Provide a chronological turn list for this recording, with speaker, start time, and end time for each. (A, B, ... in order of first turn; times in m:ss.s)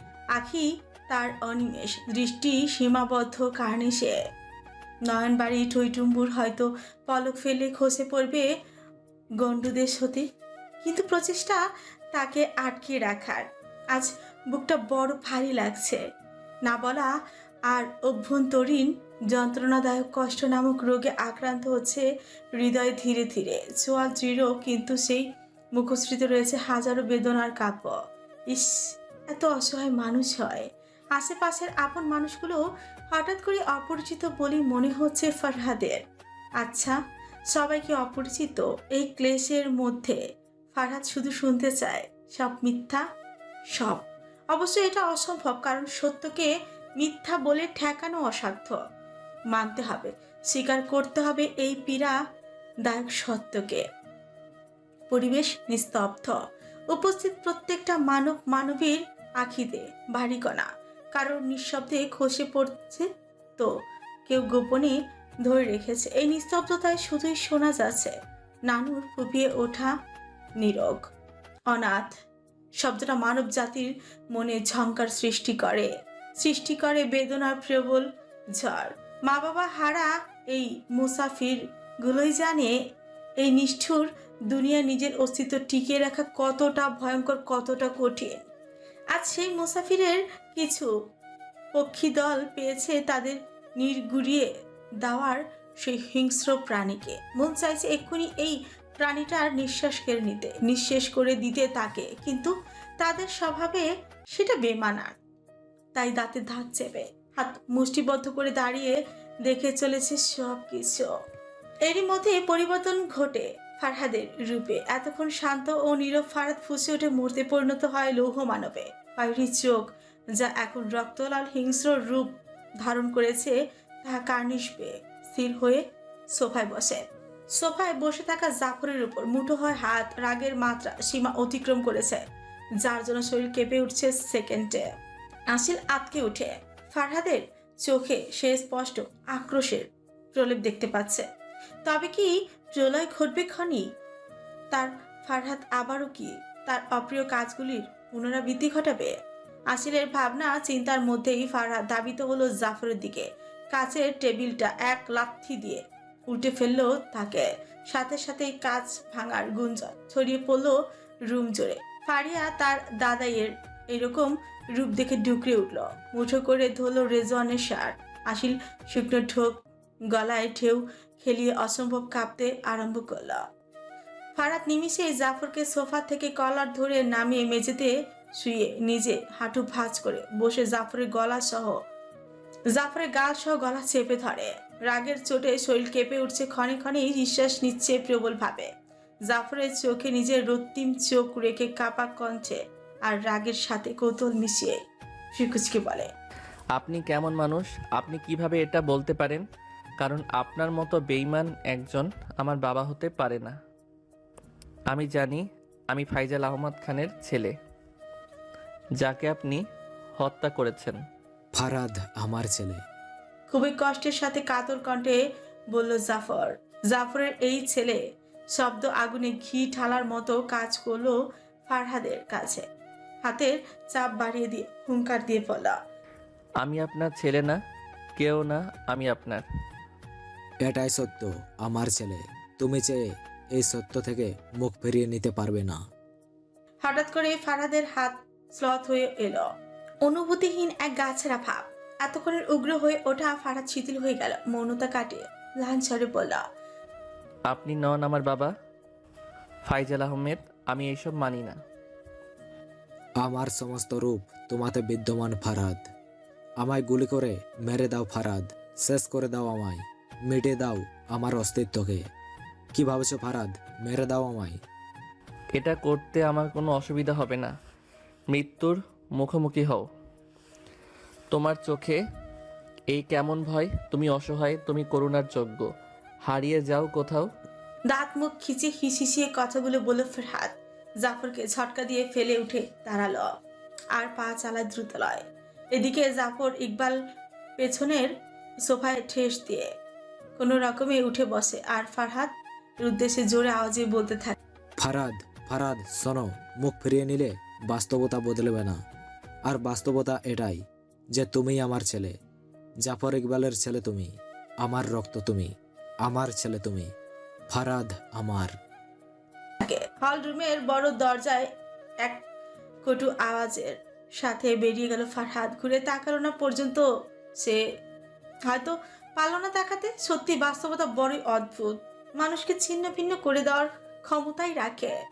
0:00.4-0:04.2 A
0:05.1-0:08.5 A
0:09.4-0:10.3 A
0:10.8-0:11.6 A
0:12.1-0:16.0 A
0:16.6-0:17.1 A
0:17.7-0:22.0 A
0:22.6-0:28.0 A
0:28.5-0:32.6 A
0:33.1-0:36.0 A
0:36.6-0:37.0 A
0:37.5-0:40.2 A
0:40.7-0:43.0 A
0:43.7-0:48.8 A
0:49.5-0:52.2 A
0:52.8-0:53.8 A
0:55.1-0:56.4 A
0:56.9-1:03.7 A
1:04.3-1:08.2 A
1:08.7-1:09.9 A
1:10.6-1:11.1 A
1:11.7-1:12.1 A
1:12.8-1:22.8 A
1:23.4-1:28.4 A
1:29.1-1:30.9 A
1:31.7-1:34.5 A
1:35.0-1:45.2 A
1:46.0-1:51.1 A
1:51.9-2:12.2 A
2:12.8-2:14.9 A
2:15.5-2:21.3 A
2:21.8-2:23.9 A
2:24.7-2:29.1 A
2:29.7-2:53.4 A
2:54.4-3:01.8 A
3:02.7-3:08.7 A
3:09.3-3:14.8 A
3:15.3-3:16.1 A
3:16.7-3:19.4 B
3:20.0-3:23.6 B
3:24.9-3:27.5 B
3:29.0-3:29.6 B
3:30.2-3:31.0 B
3:31.6-3:32.8 C
3:33.5-3:35.2 A
3:35.7-3:38.0 A
3:38.5-3:42.7 A
3:43.2-3:45.8 A
3:46.6-3:47.6 B
3:48.2-3:49.4 B
3:50.6-3:53.0 C
3:53.6-3:55.8 C
3:56.8-3:59.5 A
4:00.0-4:06.4 A
4:07.5-4:08.5 B
4:09.7-4:11.6 B
4:13.2-4:15.8 C
4:16.6-4:22.0 C
4:22.8-4:24.6 C
4:25.6-4:27.5 B
4:28.3-4:29.8 B
4:31.3-4:32.0 B
4:32.9-4:35.7 B
4:36.3-4:37.3 B
4:37.9-4:43.3 A
4:44.0-4:47.0 A
4:47.6-4:48.1 A
4:48.7-4:49.7 A
4:50.4-4:54.4 A
4:54.8-4:58.8 C
4:59.5-5:00.6 C
5:01.1-5:02.1 C
5:02.8-5:05.5 C
5:06.0-5:06.9 C
5:07.5-5:08.5 C
5:09.6-5:11.5 A
5:12.8-5:16.9 A
5:18.5-5:25.0 A